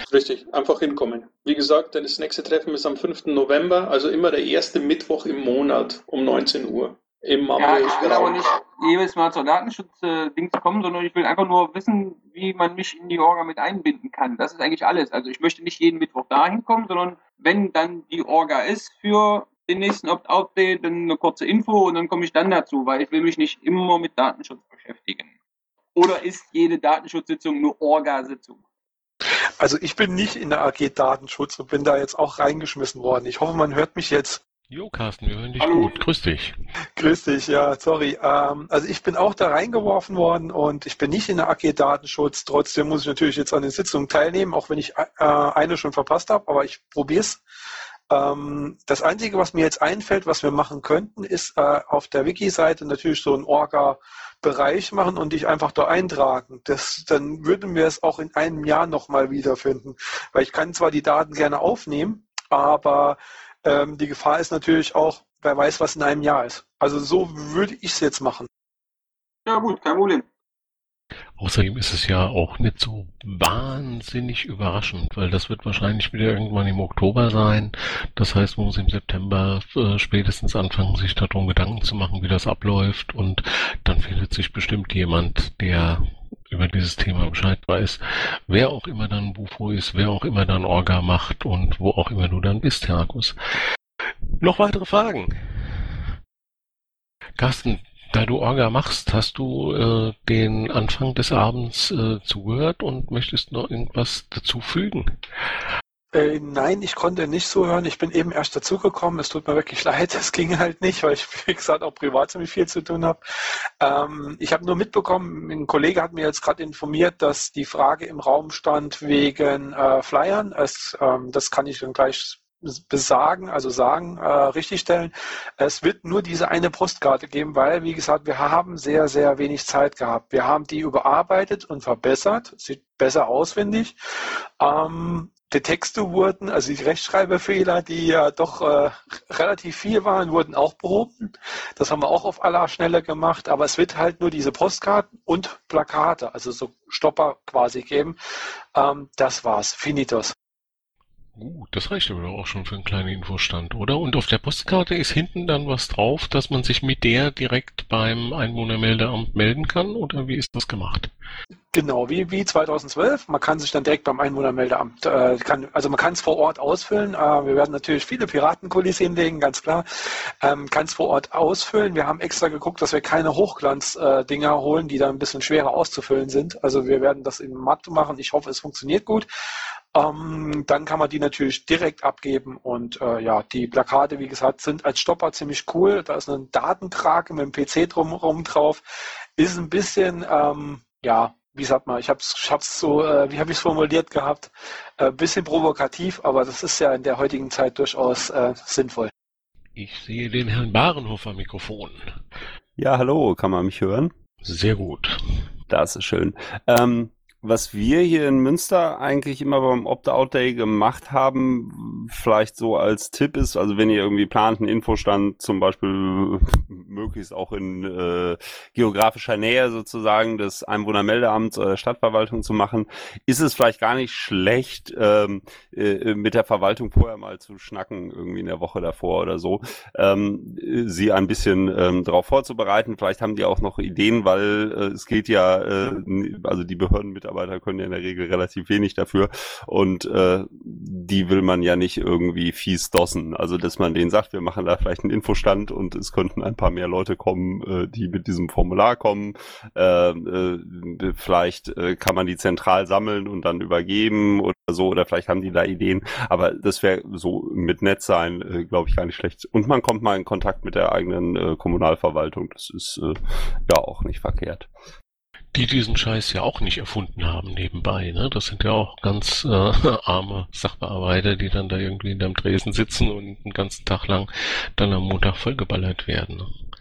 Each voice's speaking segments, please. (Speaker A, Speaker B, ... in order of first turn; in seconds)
Speaker A: 0.1-8.4
Speaker B: 7.6-25.3, 25.9-28.6, 35.6-36.0, 69.5-70.2
Speaker C: 29.6-34.4, 37.0-47.4, 48.1-68.5, 106.1-113.2, 113.8-134.0, 134.6-148.2, 148.7-150.3, 161.7-169.9, 170.4-179.3, 179.9-188.8, 189.4-199.1
Speaker D: 34.7-36.5, 71.4-93.4, 94.4-96.1, 97.4-105.2, 151.4-161.1, 199.8-202.1, 204.4-205.4, 265.5-276.5
Speaker E: 202.8-204.1, 205.7-264.7